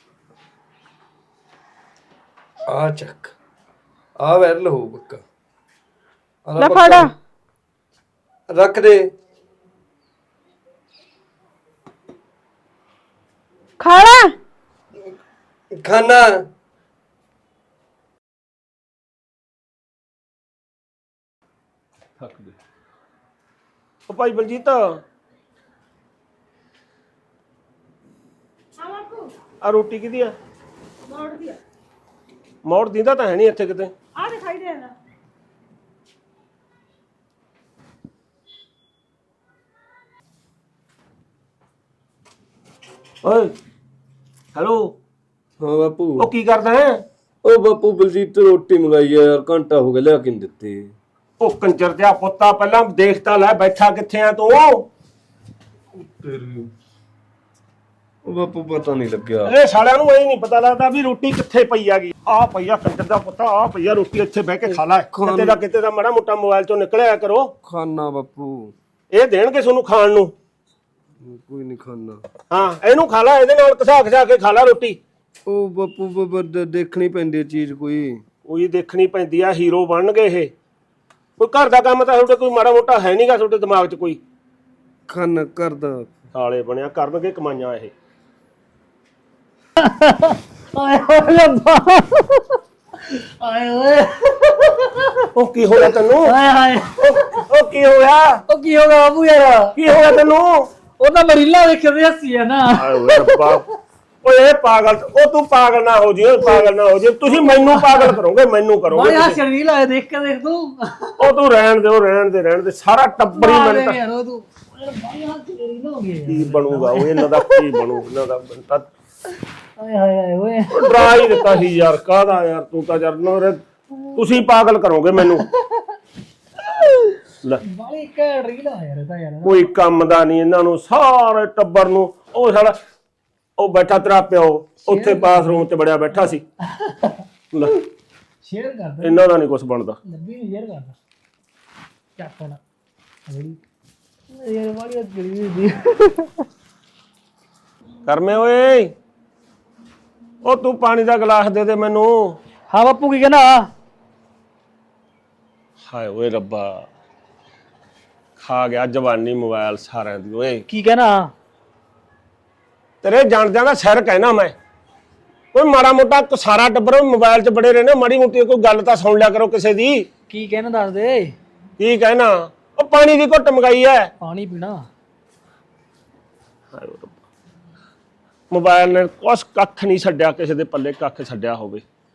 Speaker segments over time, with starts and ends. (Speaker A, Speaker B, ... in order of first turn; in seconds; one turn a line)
Speaker A: 2.7-3.3
Speaker A: 4.2-5.2
Speaker A: 6.4-7.1
Speaker B: 6.6-7.1
Speaker A: 8.5-9.1
Speaker B: 13.8-14.3
Speaker A: 15.7-16.3
Speaker C: 22.2-22.5
Speaker C: 24.1-25.0
Speaker B: 28.8-29.3
Speaker C: 29.6-30.3
Speaker B: 31.1-31.6
Speaker C: 32.6-33.9
Speaker B: 34.1-34.9
Speaker C: 43.2-43.5
Speaker C: 44.5-44.9
Speaker A: 45.6-46.3
Speaker C: 46.2-47.0
Speaker A: 47.4-50.9
Speaker C: 51.4-54.8
Speaker A: 56.0-56.7
Speaker A: 58.3-59.5
Speaker C: 59.4-67.5
Speaker A: 65.1-65.6
Speaker A: 67.6-68.7
Speaker C: 69.1-70.3
Speaker A: 71.2-72.2
Speaker C: 72.5-75.0
Speaker A: 75.5-78.2
Speaker C: 78.5-80.5
Speaker C: 81.4-84.2
Speaker A: 85.1-86.1
Speaker C: 86.3-87.9
Speaker D: 89.8-95.2
Speaker C: 95.3-96.3
Speaker D: 96.2-97.2
Speaker C: 97.0-98.4
Speaker D: 98.5-99.8
Speaker C: 99.7-100.7
Speaker D: 101.0-103.6
Speaker C: 102.7-103.6
Speaker C: 104.2-109.4
Speaker D: 107.3-108.2
Speaker D: 108.9-111.1
Speaker C: 111.2-114.0
Speaker D: 113.3-117.8
Speaker C: 116.3-118.9
Speaker D: 119.8-121.5
Speaker C: 120.7-123.6
Speaker C: 124.1-125.5
Speaker D: 125.5-125.8
Speaker D: 126.6-129.7
Speaker C: 129.4-132.8
Speaker C: 133.6-136.4
Speaker D: 134.9-135.7
Speaker D: 136.7-137.2
Speaker C: 137.5-137.8
Speaker D: 138.4-139.2
Speaker C: 139.0-140.0
Speaker D: 140.1-140.9
Speaker D: 142.2-142.6
Speaker D: 143.3-143.6
Speaker D: 144.3-146.4
Speaker C: 148.1-148.9
Speaker C: 150.4-152.4
Speaker D: 152.7-153.7
Speaker C: 155.9-156.9
Speaker C: 158.4-160.7
Speaker D: 160.7-161.3
Speaker C: 163.0-164.5
Speaker C: 165.5-170.1
Speaker D: 170.3-171.3
Speaker C: 171.8-174.1
Speaker D: 174.2-174.9
Speaker C: 176.7-177.2
Speaker C: 178.5-181.8